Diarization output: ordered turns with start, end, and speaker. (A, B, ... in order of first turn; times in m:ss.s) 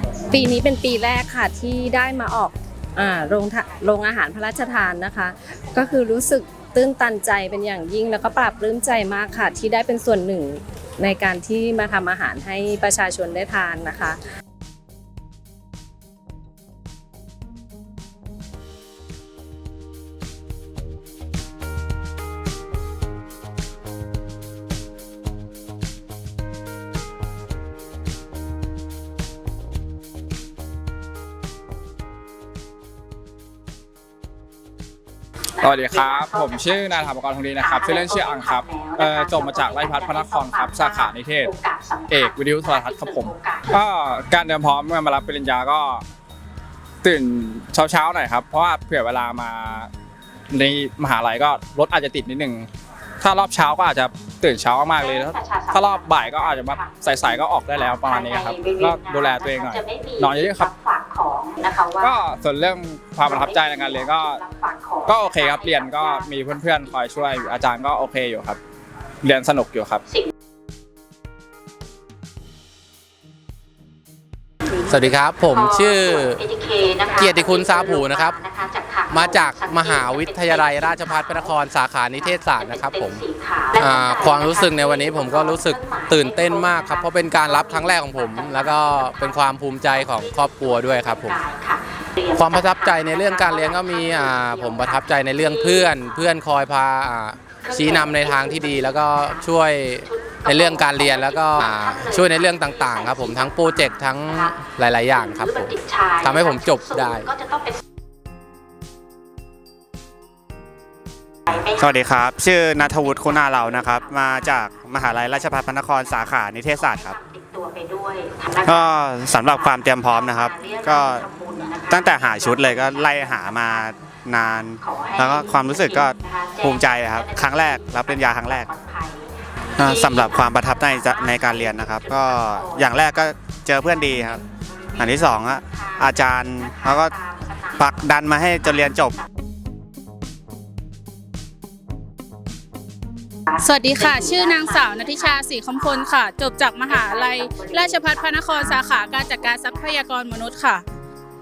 0:00.3-0:14.2 A
0:35.6-0:41.5 B
0:38.7-0:39.1 C
0:42.1-0:46.0 B
0:43.4-0:43.6 C
0:47.0-0:49.9 B
0:50.5-0:52.7 B
0:53.2-1:00.7 B
0:55.4-0:56.2 C
0:58.3-0:58.8 C
0:59.9-1:01.8 C
1:02.0-1:04.4 B
1:05.1-1:08.6 B
1:09.2-1:10.0 B
1:14.9-1:16.4 D
1:17.1-1:18.4 D
1:19.1-1:31.4 D
1:25.6-1:26.1 C
1:31.3-1:31.8 C
1:32.3-1:47.3 D
1:40.3-1:40.7 C
1:51.7-1:57.2 E
1:58.2-1:58.5 C
1:58.6-2:01.3 E
2:01.3-2:01.7 C
2:01.8-2:08.7 E
2:09.8-2:14.4 E
2:15.0-2:17.2 E
2:17.8-2:19.2 E
2:23.6-2:30.8 F